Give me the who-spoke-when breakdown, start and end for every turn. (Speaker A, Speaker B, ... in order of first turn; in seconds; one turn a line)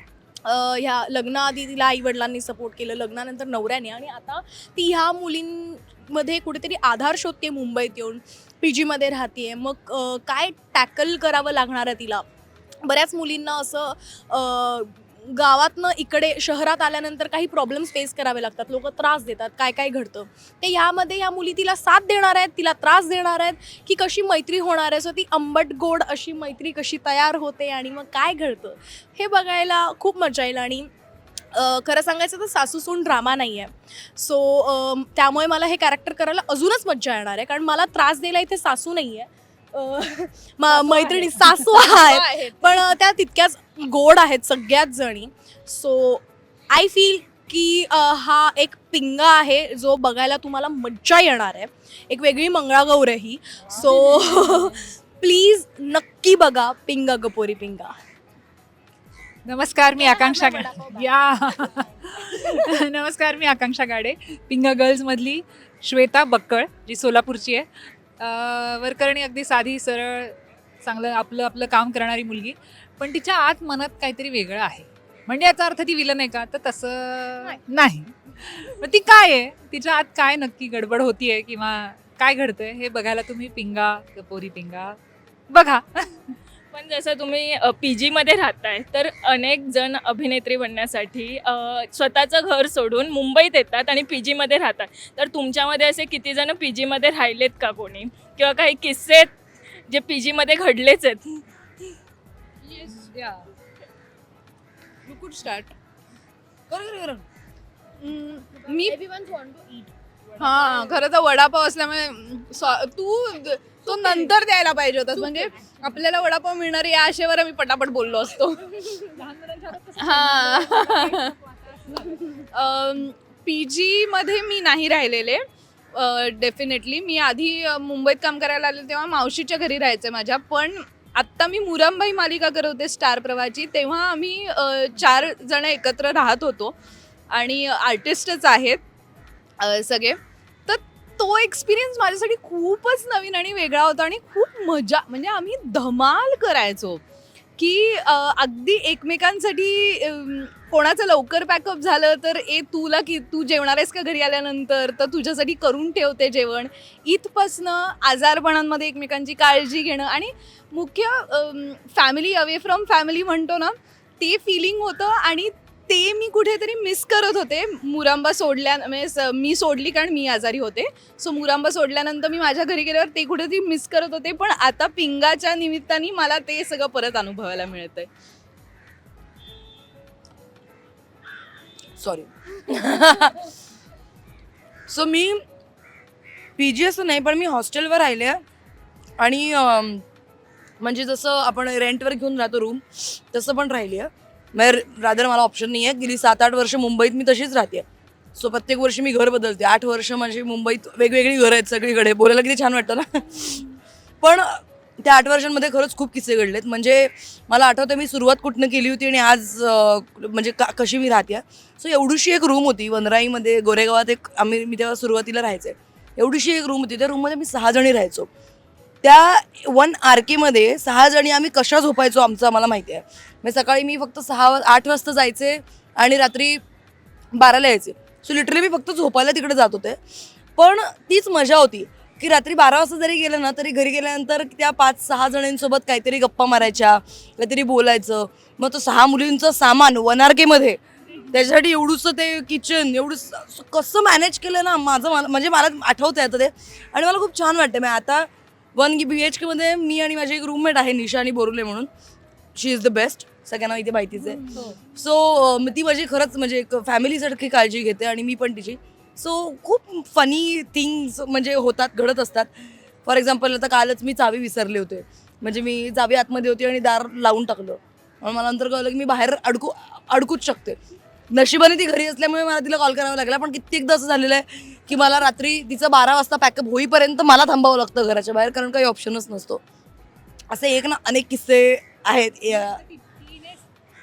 Speaker A: 0.4-12.2
Speaker A: 12.8-30.9
Speaker A: 31.5-57.9
Speaker B: 40.7-42.8
Speaker C: 53.8-54.6
Speaker C: 59.4-85.0
Speaker A: 59.9-61.1
Speaker C: 85.5-86.3
Speaker D: 86.7-99.3
Speaker D: 99.9-101.4
Speaker C: 102.9-103.5
Speaker B: 105.0-105.7
Speaker E: 106.7-107.2
Speaker B: 108.0-109.0
Speaker A: 108.9-109.8
Speaker B: 110.4-119.0
Speaker C: 110.7-111.0
Speaker A: 113.9-114.3
Speaker C: 119.1-122.4
Speaker B: 120.0-121.3
Speaker B: 122.4-136.8
Speaker B: 137.3-138.8
Speaker B: 139.6-147.0
Speaker B: 147.6-178.1
Speaker E: 182.0-183.5
Speaker E: 184.9-185.4
Speaker E: 186.6-188.4
Speaker E: 189.2-190.0
Speaker E: 190.8-197.8
Speaker E: 198.3-203.6
Speaker E: 204.2-218.3
Speaker E: 219.0-226.6
Speaker E: 227.3-230.0
Speaker E: 230.6-251.9
Speaker E: 252.6-262.5
Speaker C: 254.3-254.7
Speaker E: 263.1-270.8
Speaker E: 271.3-279.6
Speaker E: 280.5-282.8
Speaker C: 282.5-283.6